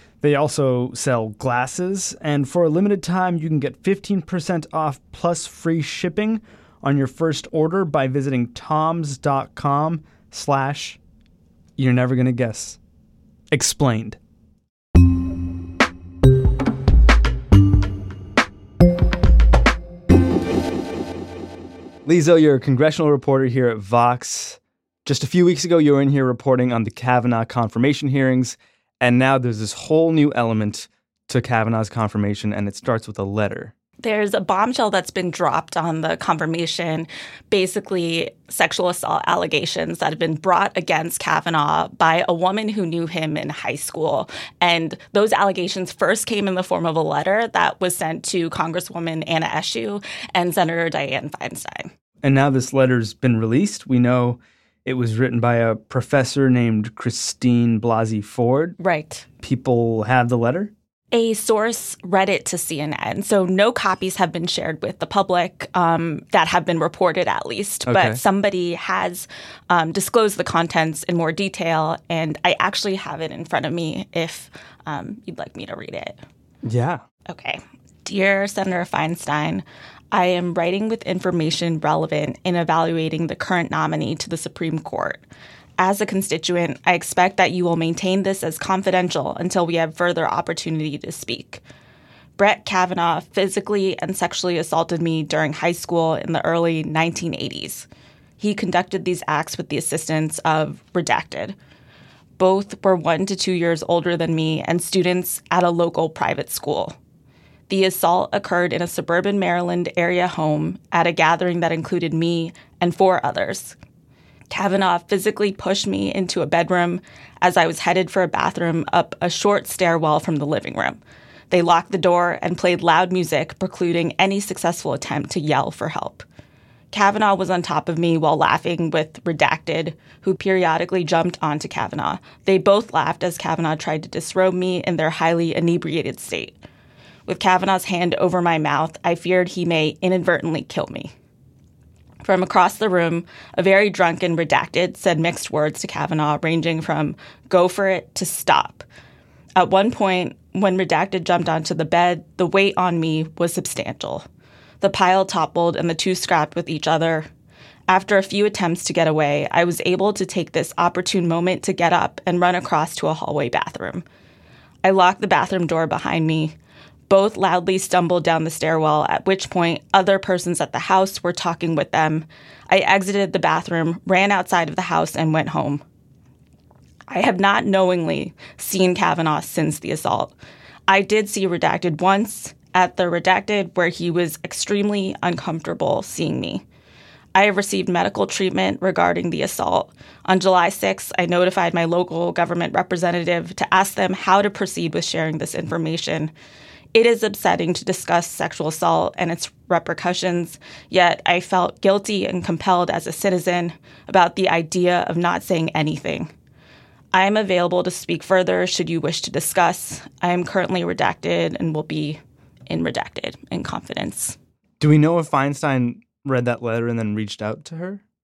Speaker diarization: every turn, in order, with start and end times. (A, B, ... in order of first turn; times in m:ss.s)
0:00.2-0:11.0 A
0:11.8-0:12.8 A
0:13.5-0:14.2 A
0:22.0-0:33.7 A
0:34.0-0:51.9 B
0:52.2-0:58.8 A
0:58.8-0:59.2 B
0:59.4-1:00.7 A
1:01.1-1:16.2 B
1:07.9-1:08.2 A
1:16.6-1:17.0 A
1:17.3-1:25.2 B
1:25.8-1:31.6 B
1:32.4-1:37.9 B
1:38.4-1:41.6 B
1:42.4-1:46.9 B
1:47.7-1:53.8 B
1:54.5-2:01.0 B
2:01.5-2:06.2 B
2:06.9-2:16.6 B
2:17.3-2:21.1 B
2:22.2-2:28.8 B
2:29.6-2:34.2 B
2:34.8-2:37.3 B
2:37.9-2:44.0 B
2:44.8-2:46.5 B
2:47.1-2:55.8 B
2:57.1-3:00.3 B
3:00.9-3:06.6 B
3:07.3-3:16.3 B
3:16.9-3:26.3 B
3:27.1-3:34.4 B
3:34.8-3:38.0 A